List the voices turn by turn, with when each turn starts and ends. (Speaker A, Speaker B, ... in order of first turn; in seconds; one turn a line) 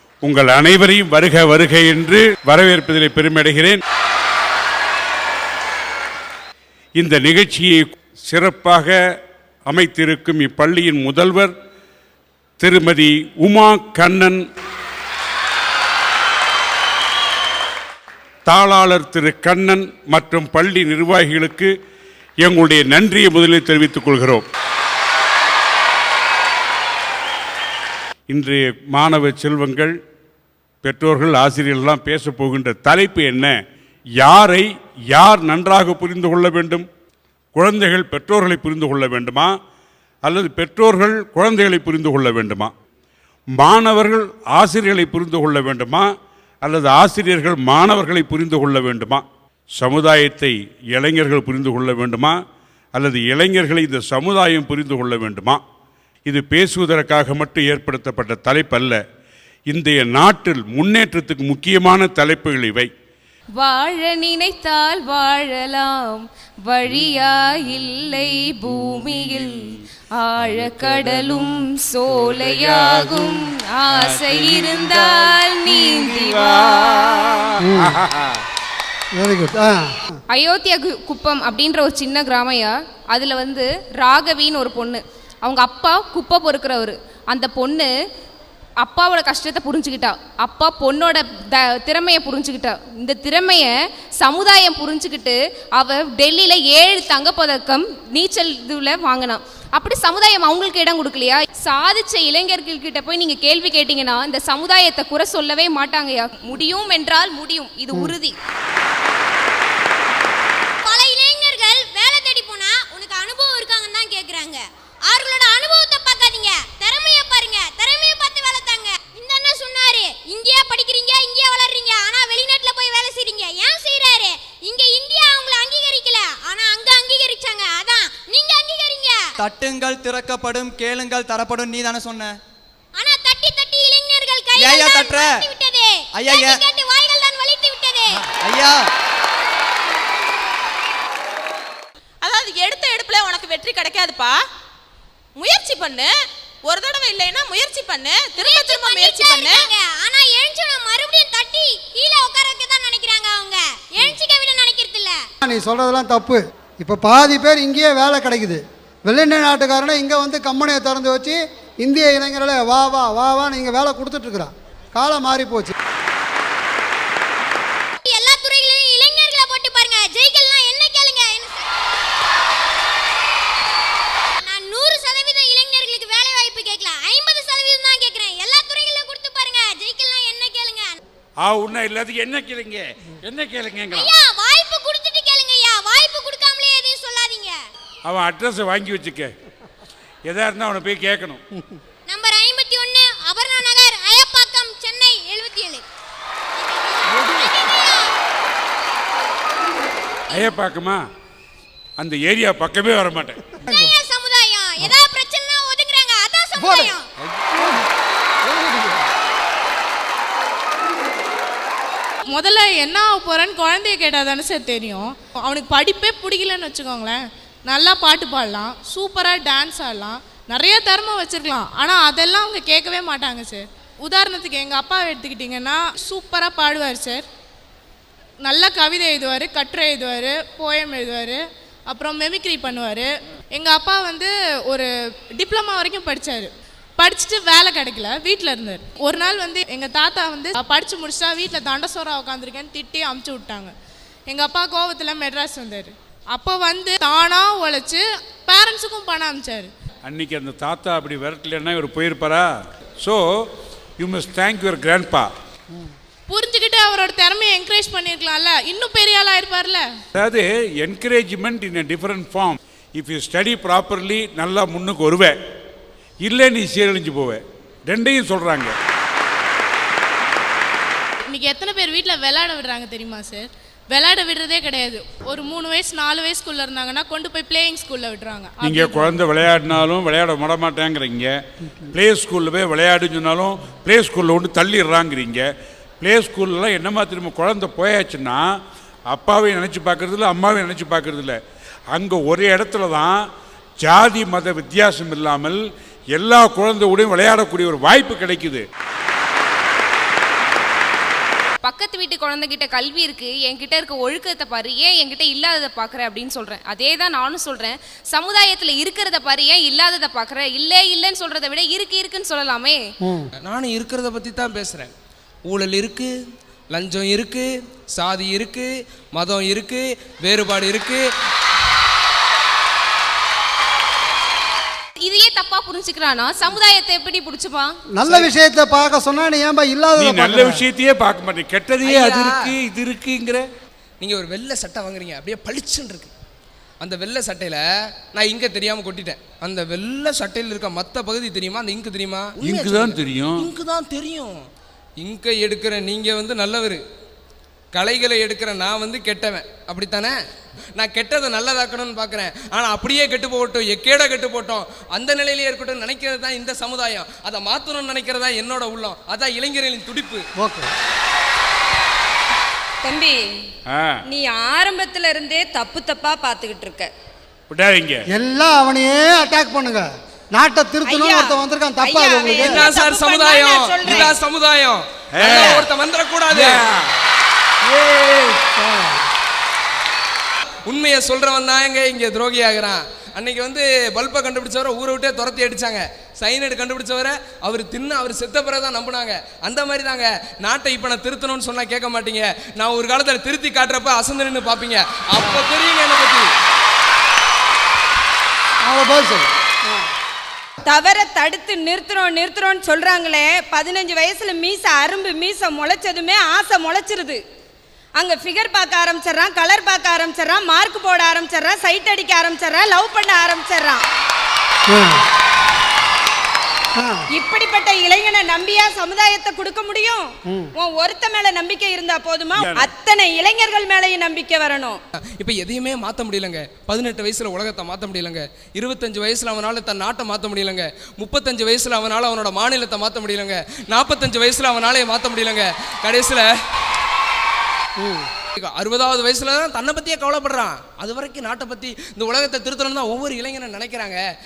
Speaker A: 0.2-3.8
Speaker A: 7.0-9.0
Speaker A: 9.7-11.5
Speaker A: 12.6-14.4
Speaker A: 18.5-21.7
Speaker A: 22.4-24.4
Speaker A: 28.3-29.9
Speaker A: 30.8-33.5
Speaker A: 34.2-36.8
Speaker A: 37.5-39.5
Speaker A: 40.2-42.7
Speaker A: 43.5-46.1
Speaker A: 46.6-49.2
Speaker A: 49.8-52.3
Speaker A: 52.9-55.6
Speaker A: 56.2-59.0
Speaker A: 59.7-62.9
Speaker B: 63.5-77.3
Speaker A: 70.5-71.3
Speaker A: 72.1-73.3
Speaker A: 74.0-78.2
Speaker C: 77.6-78.0
Speaker C: 79.2-80.0
Speaker B: 80.3-87.9
Speaker B: 88.8-108.3
Speaker D: 110.8-129.3
Speaker E: 129.5-132.3
Speaker D: 132.9-138.2
Speaker E: 134.6-135.2
Speaker E: 136.3-136.5
Speaker F: 142.2-144.4
Speaker F: 145.3-149.7
Speaker D: 148.3-155.2
Speaker C: 155.4-165.7
Speaker D: 168.0-171.7
Speaker D: 174.4-180.9
Speaker A: 181.4-184.2
Speaker D: 183.9-187.6
Speaker A: 188.0-189.3
Speaker A: 190.2-191.4
Speaker D: 192.1-195.8
Speaker D: 196.6-198.1
Speaker A: 200.3-201.0
Speaker A: 202.0-203.5
Speaker C: 203.6-204.0
Speaker D: 203.7-207.0
Speaker C: 206.5-206.9
Speaker C: 207.5-207.8
Speaker C: 208.4-208.9
Speaker G: 212.3-227.2
Speaker G: 228.4-243.7
Speaker G: 244.3-249.7
Speaker A: 250.0-252.5
Speaker A: 254.0-255.3
Speaker G: 256.3-259.8
Speaker A: 260.1-265.3
Speaker A: 266.2-268.7
Speaker G: 271.3-279.2
Speaker A: 278.6-281.4
Speaker A: 281.9-285.4
Speaker A: 286.0-288.4
Speaker A: 289.1-291.4
Speaker A: 291.9-293.2
Speaker A: 293.8-295.6
Speaker A: 296.1-298.6
Speaker B: 301.6-312.8
Speaker H: 313.4-314.9
Speaker H: 315.5-316.1
Speaker H: 316.7-321.0
Speaker B: 325.0-327.7
Speaker C: 327.9-330.6
Speaker H: 328.0-328.3
Speaker A: 330.0-333.4
Speaker H: 331.8-332.5
Speaker H: 334.0-336.1
Speaker H: 336.8-337.6
Speaker H: 338.1-344.4
Speaker A: 342.4-343.5
Speaker H: 345.0-346.8
Speaker H: 347.7-350.1
Speaker H: 350.8-360.2
Speaker C: 360.4-360.7
Speaker I: 362.8-363.2
Speaker A: 363.7-364.0
Speaker I: 364.1-366.9
Speaker A: 367.5-368.0
Speaker C: 368.1-372.6
Speaker I: 370.9-374.1
Speaker H: 372.3-376.6
Speaker A: 375.1-375.7
Speaker A: 376.3-376.9
Speaker A: 377.7-378.3
Speaker C: 378.4-378.9
Speaker H: 380.7-396.3
Speaker C: 398.6-399.8
Speaker I: 400.6-407.2
Speaker I: 408.0-413.8
Speaker C: 414.7-415.0
Speaker C: 416.8-417.0
Speaker I: 417.1-424.8
Speaker A: 422.3-422.7
Speaker H: 425.2-436.3
Speaker C: 437.8-438.1
Speaker H: 438.4-444.0